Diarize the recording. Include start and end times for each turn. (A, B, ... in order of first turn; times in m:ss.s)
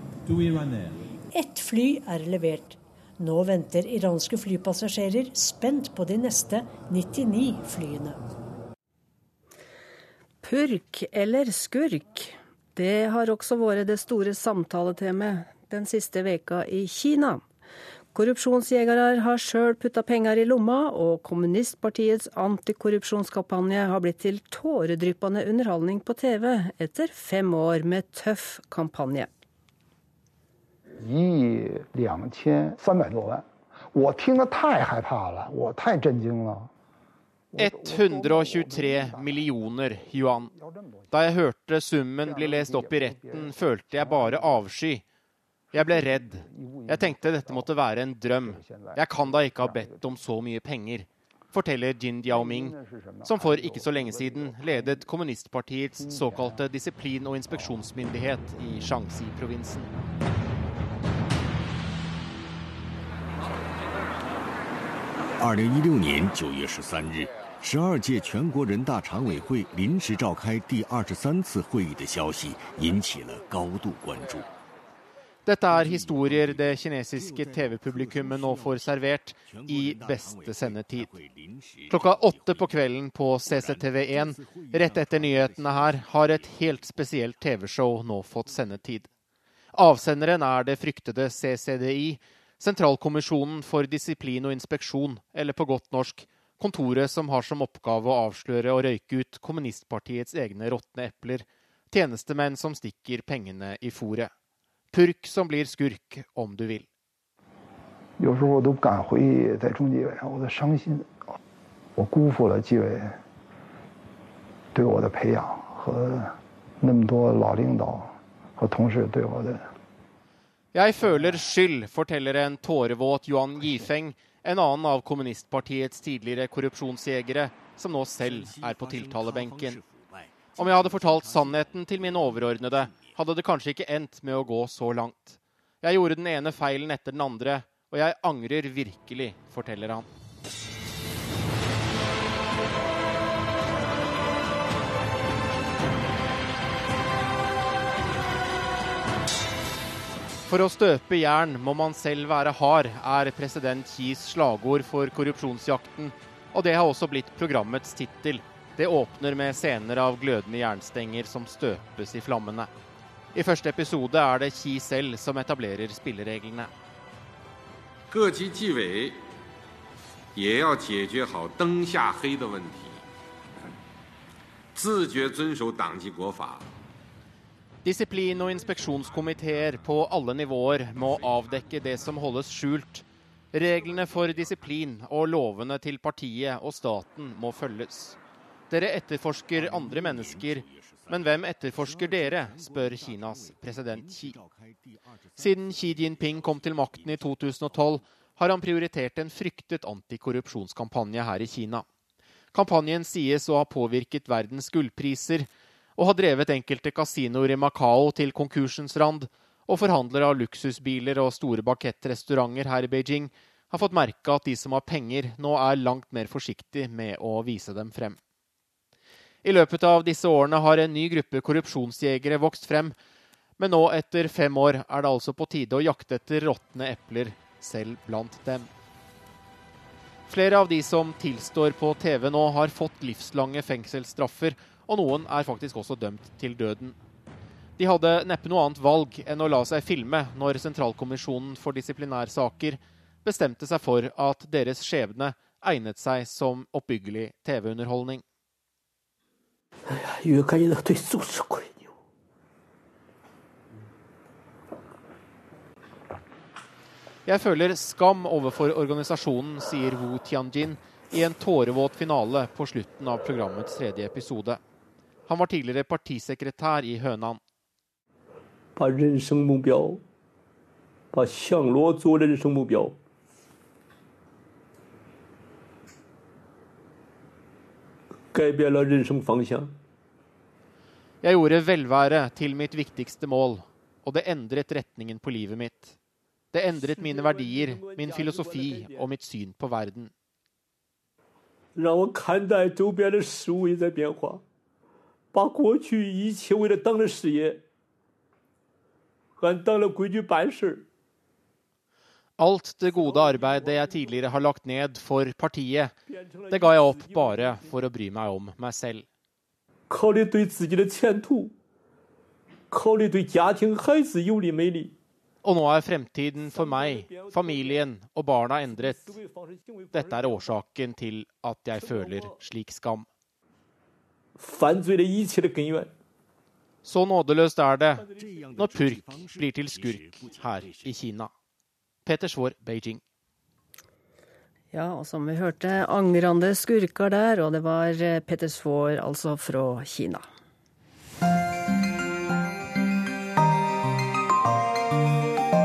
0:01.3-0:08.2 A
0:10.4-0:17.4 B
0:18.1-0:29.3 B
0:31.0-0:36.7 C
0:37.5-0:39.5 C
0:37.6-0:40.5 D
0:40.0-0:41.1 C
0:41.1-0:45.0 D
0:42.2-0:44.5 C
0:45.7-0:59.9 D
0:45.7-0:47.7 C
0:48.4-0:50.1 C
0:52.2-0:55.0 C
0:56.0-0:56.7 C
1:05.3-1:14.5 E
1:15.4-1:21.1 D
1:15.7-1:22.8 E
1:21.9-1:29.1 D
1:23.4-1:27.4 E
1:29.7-1:44.3 D
1:44.9-1:46.8 D
1:48.2-1:51.1 C
1:52.0-1:53.2 C
1:54.7-1:59.7 C
2:00.7-2:09.8 D
2:01.1-2:01.5 E
2:03.6-2:03.9 E
2:08.2-2:13.2 E
2:10.6-2:20.1 D
2:30.5-2:42.7 D
2:43.3-2:46.7 D
2:48.1-2:49.2 F
2:50.3-2:53.0 F
2:54.7-2:56.7 F
2:57.8-3:08.2 D
3:08.7-3:14.4 D
3:09.5-3:18.0 E
3:15.4-3:21.8 D
3:22.5-3:38.2 D
3:39.4-3:42.9 D
3:43.6-3:48.7 D
3:50.3-3:57.0 D
3:57.8-4:08.2 D
4:09.9-4:11.9 G
4:17.2-4:24.6 D
4:25.3-4:27.4 D
4:28.8-4:30.0 G
4:31.1-4:33.0 G
4:38.3-4:39.7 G
4:41.2-4:45.9 D
4:46.5-4:50.1 D
4:46.7-4:49.1 G
4:51.8-4:54.4 G
4:55.3-4:57.6 G
4:59.4-5:00.8 G
5:02.4-5:05.9 D
5:03.0-5:04.0 G
5:06.1-5:07.6 G
5:06.5-5:09.0 D
5:09.9-5:11.5 G
5:12.7-5:14.9 G
5:15.4-5:19.1 D
5:16.4-5:17.8 G
5:18.7-5:20.4 G
5:19.9-5:23.1 D
5:21.7-5:22.3 G
5:24.4-5:25.9 G
5:26.8-5:31.3 D
5:28.0-5:31.0 E
5:32.0-5:33.0 D
5:34.7-5:40.2 B